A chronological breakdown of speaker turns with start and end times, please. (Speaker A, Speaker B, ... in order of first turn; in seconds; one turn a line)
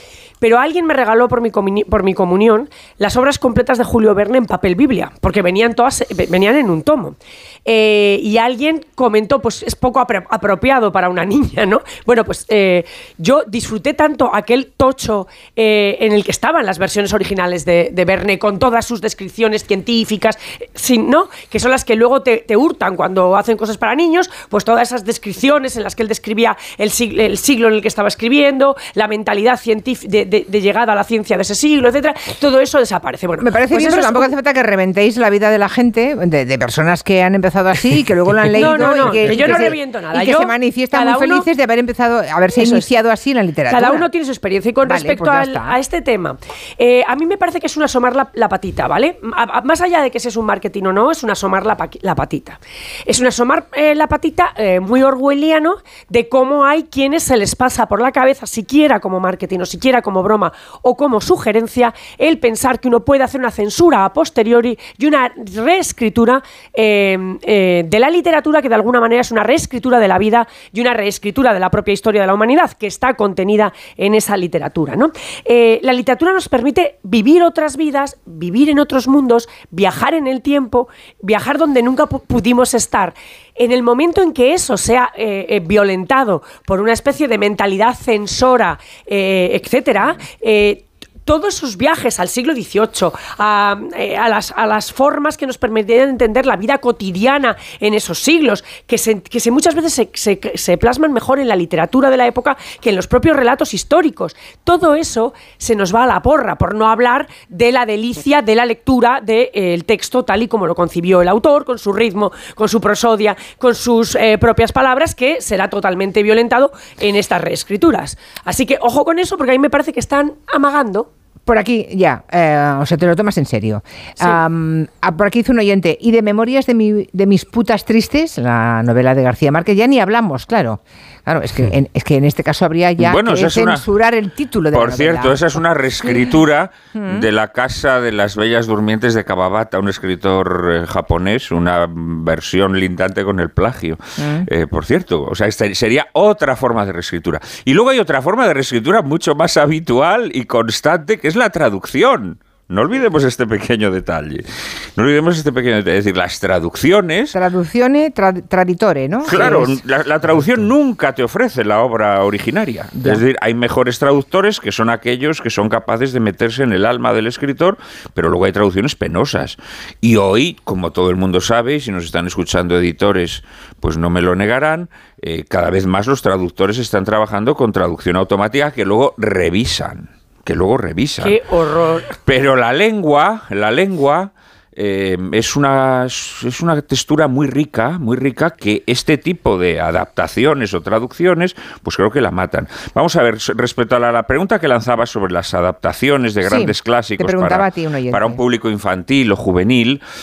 Speaker A: 0.4-34.3
Speaker B: 33.4-44.1
Speaker A: 38.5-41.5
Speaker A: 42.6-42.9
Speaker A: 43.7-121.1
Speaker B: 44.9-45.8
Speaker B: 121.5-136.3
Speaker C: 133.0-133.8
Speaker C: 134.7-154.4
Speaker B: 136.9-137.3
Speaker B: 144.2-144.5
Speaker C: 155.0-157.4
Speaker B: 157.3-159.8
Speaker C: 159.2-181.4
Speaker A: 181.2-182.2
Speaker C: 182.2-200.0
Speaker B: 196.4-198.4